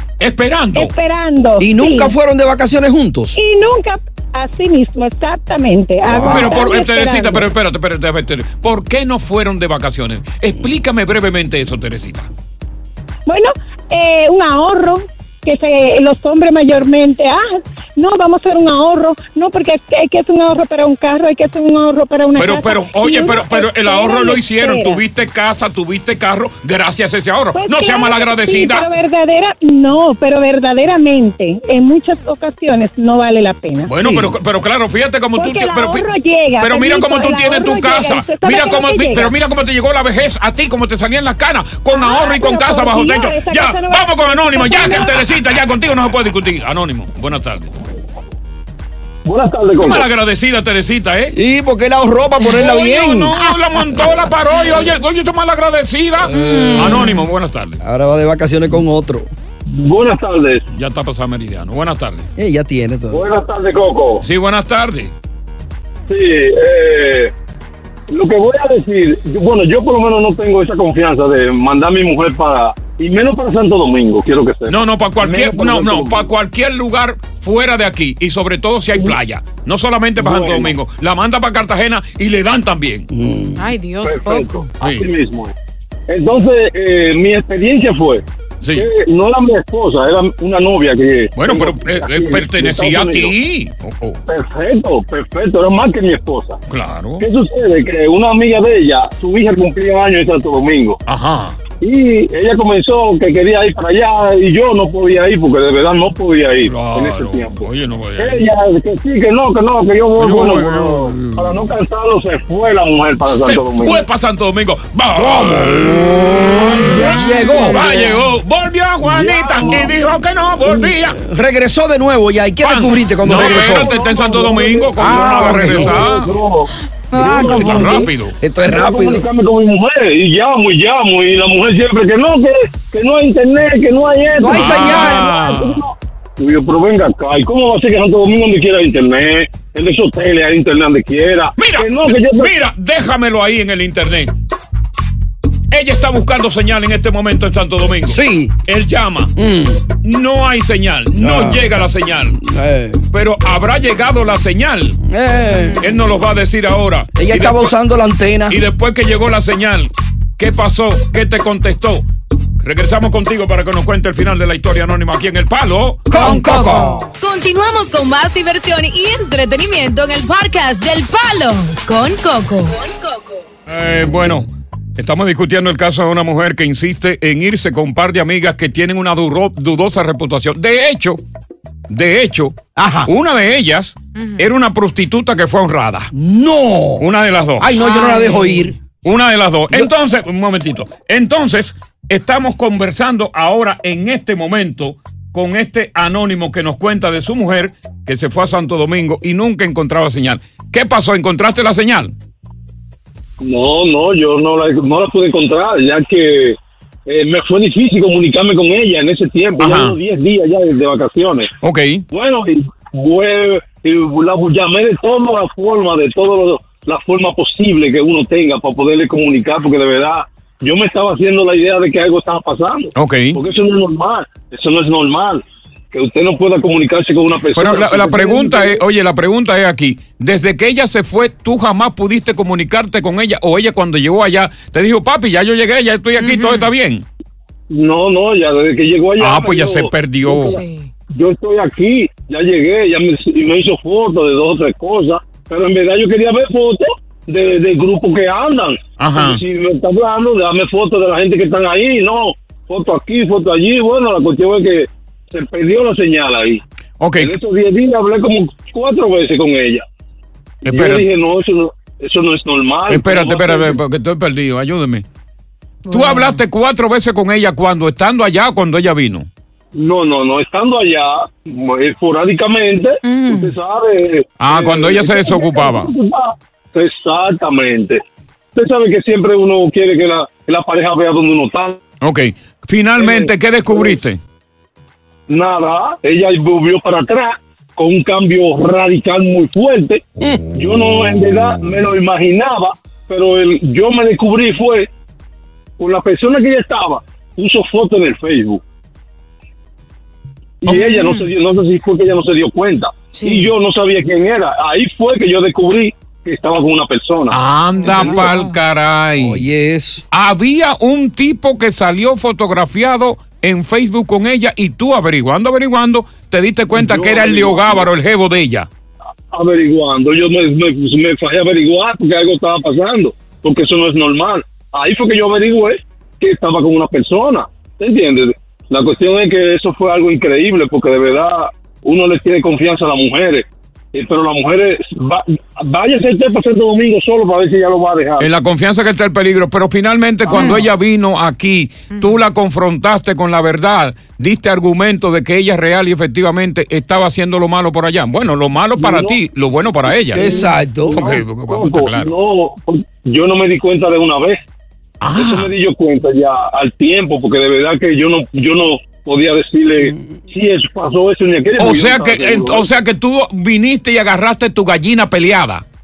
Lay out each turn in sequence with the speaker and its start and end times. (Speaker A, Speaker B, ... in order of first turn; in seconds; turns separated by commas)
Speaker A: 0.2-0.9, Speaker B: 0.7-2.1, Speaker C: 1.6-3.4, Speaker B: 3.4-7.5, Speaker C: 6.0-6.5, Speaker A: 6.2-12.3, Speaker B: 13.3-25.0, Speaker A: 22.4-28.9, Speaker B: 27.5-33.9, Speaker A: 33.9-36.0, Speaker C: 34.0-34.4, Speaker B: 35.4-39.3, Speaker A: 36.6-47.7, Speaker B: 41.9-45.2, Speaker D: 49.2-50.1, Speaker A: 49.8-51.3, Speaker C: 51.3-53.4, Speaker A: 52.5-57.8, Speaker C: 56.2-57.1, Speaker E: 56.4-57.2, Speaker C: 57.8-59.3, Speaker D: 59.7-60.6, Speaker A: 60.7-62.3, Speaker C: 62.4-63.2, Speaker D: 63.1-64.2, Speaker A: 64.2-65.1, Speaker D: 66.1-67.3, Speaker D: 68.1-76.3, Speaker A: 74.7-83.1, Speaker D: 80.2-80.8, Speaker C: 83.1-83.6, Speaker E: 83.6-84.7, Speaker D: 84.0-85.5, Speaker A: 84.8-85.1, Speaker D: 86.1-93.3, Speaker A: 88.6-88.9, Speaker A: 91.3-94.2, Speaker D: 94.3-96.6, Speaker A: 96.7-97.3, Speaker D: 97.2-101.0, Speaker A: 101.0-101.6, Speaker D: 101.8-114.0, Speaker A: 106.6-108.4, Speaker A: 110.2-111.7, Speaker A: 113.3-121.2, Speaker C: 115.1-118.1, Speaker E: 116.9-117.7, Speaker D: 119.0-120.1, Speaker C: 121.2-123.9, Speaker A: 122.6-126.3, Speaker D: 123.2-128.1, Speaker C: 125.0-126.1, Speaker E: 127.1-128.1, Speaker A: 127.2-128.3, Speaker C: 128.4-129.2, Speaker D: 128.6-142.5, Speaker C: 134.4-135.3, Speaker A: 134.5-135.8, Speaker A: 141.6-144.3, Speaker A: 145.7-149.3, Speaker C: 148.0-148.5, Speaker C: 149.3-149.8, Speaker A: 150.0-152.4, Speaker C: 151.1-151.7, Speaker C: 152.3-153.0, Speaker A: 153.1-155.0, Speaker C: 155.0-155.8, Speaker A: 155.8-157.8, Speaker C: 157.2-158.6, Speaker A: 158.5-162.1, Speaker A: 162.6-166.4, Speaker C: 166.1-167.1, Speaker E: 166.1-173.4, Speaker A: 173.7-181.2, Speaker A: 181.9-186.1, Speaker C: 182.8-183.1, Speaker E: 184.2-184.4, Speaker C: 186.1-187.0, Speaker A: 187.0-187.8, Speaker C: 187.6-188.8, Speaker E: 187.8-188.7, Speaker A: 189.0-202.1, Speaker D: 203.4-211.5, Speaker A: 209.6-210.0, Speaker A: 211.6-212.1, Speaker D: 212.1-228.8, Speaker A: 222.9-223.4, Speaker A: 227.5-237.0, Speaker E: 236.2-236.7, Speaker D: 237.7-256.6, Speaker A: 239.2-240.6, Speaker E: 240.4-240.9, Speaker A: 249.0-249.4, Speaker A: 257.0-257.3, Speaker D: 257.1-259.8, Speaker D: 260.6-263.8, Speaker A: 260.7-261.1, Speaker A: 262.9-265.0, Speaker E: 265.9-266.4, Speaker A: 265.9-269.3, Speaker D: 269.7-278.0, Speaker E: 273.0-273.5, Speaker A: 274.4-275.9, Speaker D: 278.5-281.8, Speaker A: 282.0-284.2, Speaker D: 283.0-284.0, Speaker D: 285.3-294.9, Speaker A: 290.5-291.6, Speaker D: 295.8-298.6, Speaker D: 300.6-307.4, Speaker A: 300.6-301.1, Speaker E: 300.7-301.2, Speaker E: 303.1-303.5, Speaker A: 307.3-309.4, Speaker E: 307.8-308.6, Speaker C: 309.2-310.0, Speaker A: 310.1-318.7, Speaker D: 316.7-317.9, Speaker D: 319.3-338.3, Speaker A: 338.2-350.3, Speaker D: 340.3-340.6, Speaker E: 340.3-340.7, Speaker E: 341.9-342.2, Speaker D: 348.8-349.2, Speaker D: 349.8-354.4, Speaker C: 350.1-351.0, Speaker A: 350.9-352.1, Speaker A: 355.0-355.5, Speaker D: 355.1-362.7, Speaker A: 361.6-365.6